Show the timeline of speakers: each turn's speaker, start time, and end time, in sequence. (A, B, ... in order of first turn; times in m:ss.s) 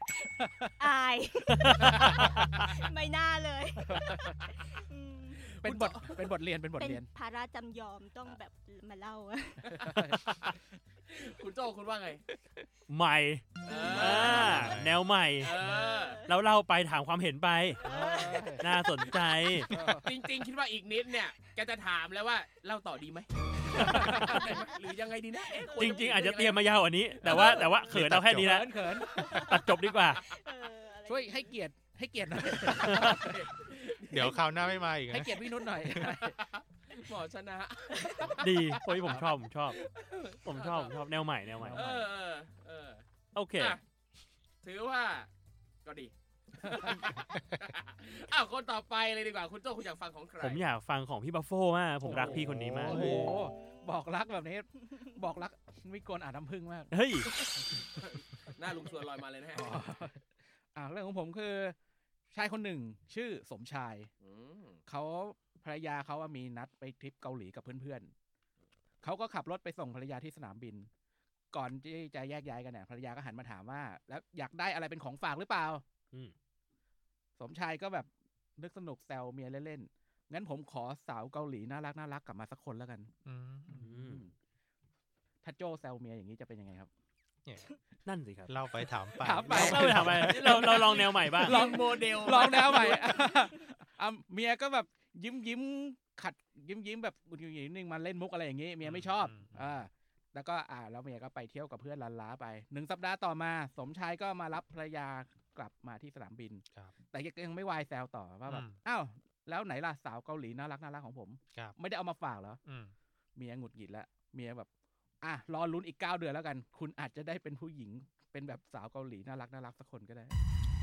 0:00.2-0:00.7 A
0:00.8-0:05.5 B
0:01.6-0:02.5 C
0:01.9-0:02.2 A
0:03.9-0:04.4 A
0:05.4-0:06.3 D
0:05.6-0:07.1 A
0:06.8-0:09.8 B
0:09.6-0:10.2 A
0:09.8-0:10.5 D
0:11.1-0:12.2 D
0:12.9-0:15.5 C
0:13.7-0:14.7 D
0:13.7-0:14.7 B
0:14.3-0:15.0 E
0:15.4-0:16.2 D
0:15.6-0:16.4 B
0:16.3-0:17.8 C
0:17.8-0:19.1 B
0:17.8-0:18.7 A
0:18.6-0:19.7 C
0:19.7-0:20.1 A
0:19.7-0:20.0 E
0:20.0-0:26.7 D
0:23.7-0:24.4 A
0:24.1-0:24.8 B
0:25.5-0:26.1 B
0:25.8-0:28.7 C
0:27.2-0:27.7 D
0:27.3-0:28.6 E
0:28.4-0:29.1 A
0:29.0-0:31.6 B
0:29.5-0:30.2 C
0:31.1-0:33.4 A
0:32.8-0:33.2 C
0:33.0-0:34.8 D
0:34.1-0:36.1 E
0:35.1-0:36.4 A
0:36.0-0:38.7 D
0:38.4-0:39.8 C
0:39.0-0:39.3 A
0:39.8-0:41.0 D
0:40.4-0:41.8 C
0:41.6-0:42.0 A
0:41.7-0:43.0 D
0:43.4-0:43.8 C
0:44.6-0:45.3 D
0:45.8-0:50.6 D
0:46.6-0:47.0 A
0:50.4-0:53.0 C
0:52.0-0:56.9 A
0:52.1-0:53.4 E
0:53.1-0:54.0 B
0:56.9-0:57.3 C
0:57.3-0:59.8 D
0:59.5-1:00.2 A
1:00.8-1:01.8 A
1:02.3-1:04.1 A
1:04.2-1:04.8 D
1:04.9-1:08.1 A
1:09.0-1:10.9 A
1:11.5-1:15.8 A
1:17.4-1:23.1 A
1:23.3-1:23.9 E
1:23.8-1:24.2 C
1:23.8-1:24.3 A
1:25.4-1:26.9 A
1:28.1-1:28.5 C
1:28.5-1:30.8 E
1:29.2-1:52.6 A
1:29.5-1:31.6 C
1:31.0-1:33.1 D
1:38.8-1:39.7 E
1:48.5-1:48.8 E
1:52.6-1:52.9 E
1:53.4-1:54.7 A
1:55.2-2:00.4 A